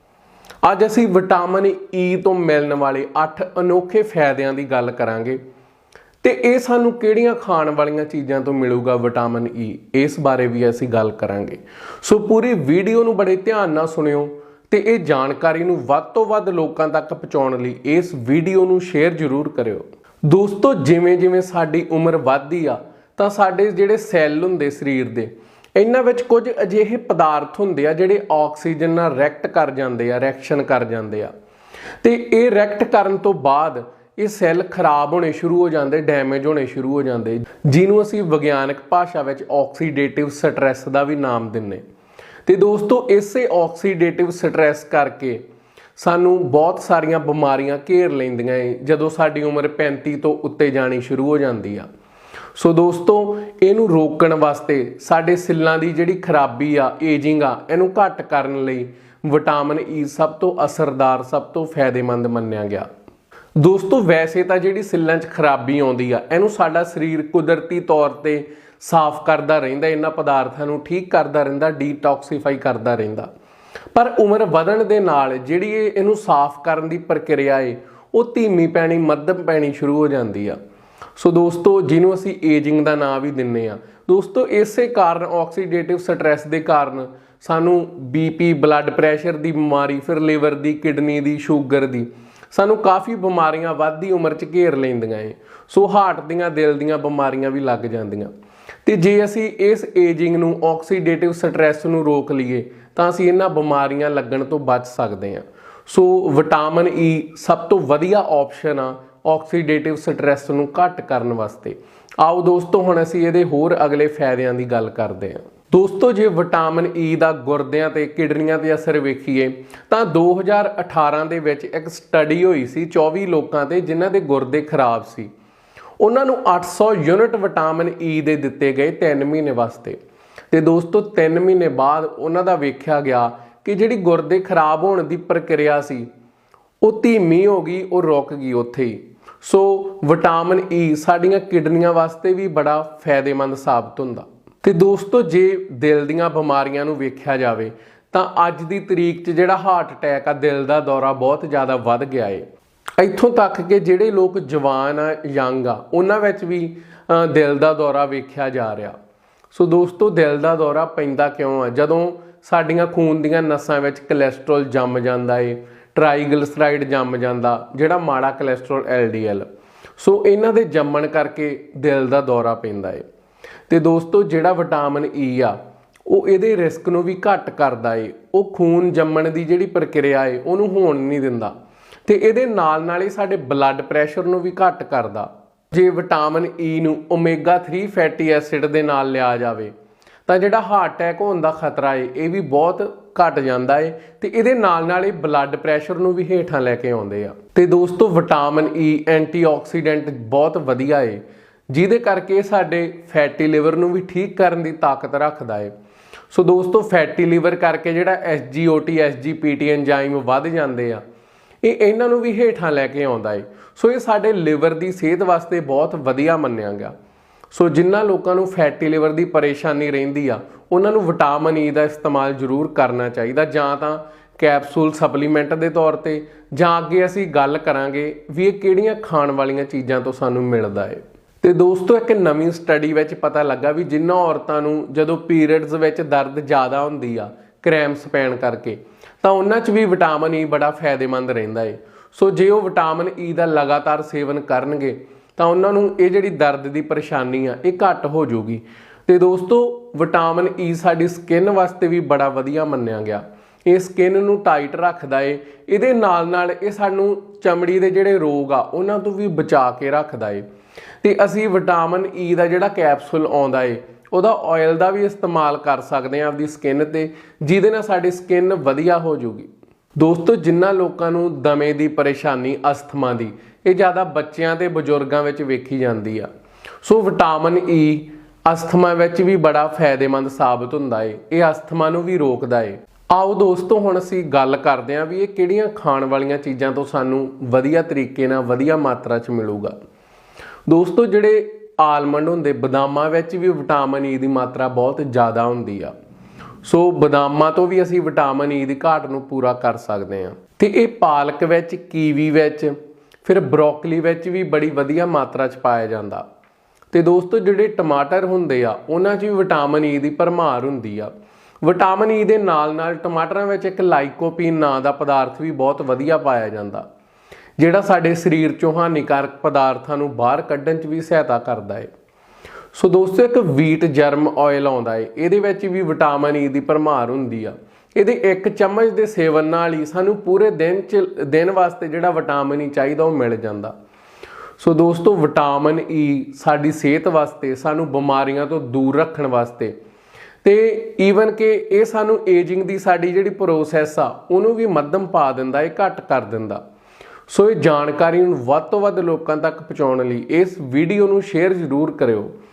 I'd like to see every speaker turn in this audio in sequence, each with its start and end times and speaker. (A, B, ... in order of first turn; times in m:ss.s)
0:00.6-0:05.4 A
0:06.2-0:31.3 A
0:32.0-0:41.8 A
0:42.4-0:45.4 A
0:46.0-0:51.9 A
0:52.6-1:02.9 A
1:03.6-1:13.3 A
1:13.9-1:20.6 A
1:21.2-1:38.3 A
1:38.8-2:05.3 A
2:06.0-2:10.0 A
2:10.5-2:16.1 A
2:16.8-2:32.4 A
2:33.0-2:39.0 A
2:39.5-2:49.5 A
2:50.0-2:53.0 A
2:53.7-2:55.6 A
2:56.1-3:01.5 A
3:02.0-3:09.7 A
3:10.3-3:25.7 A
3:26.3-3:31.0 A
3:31.6-3:36.9 A
3:37.5-4:20.4 A
4:21.0-4:36.3 A
4:36.8-4:49.7 A
4:50.7-4:55.9 A
4:56.6-5:06.2 A
5:06.9-5:11.1 A
5:11.6-5:16.8 A
5:17.6-5:21.9 A
5:22.7-5:33.7 A
5:34.6-5:39.7 A
5:40.4-5:46.6 A
5:47.3-5:52.3 A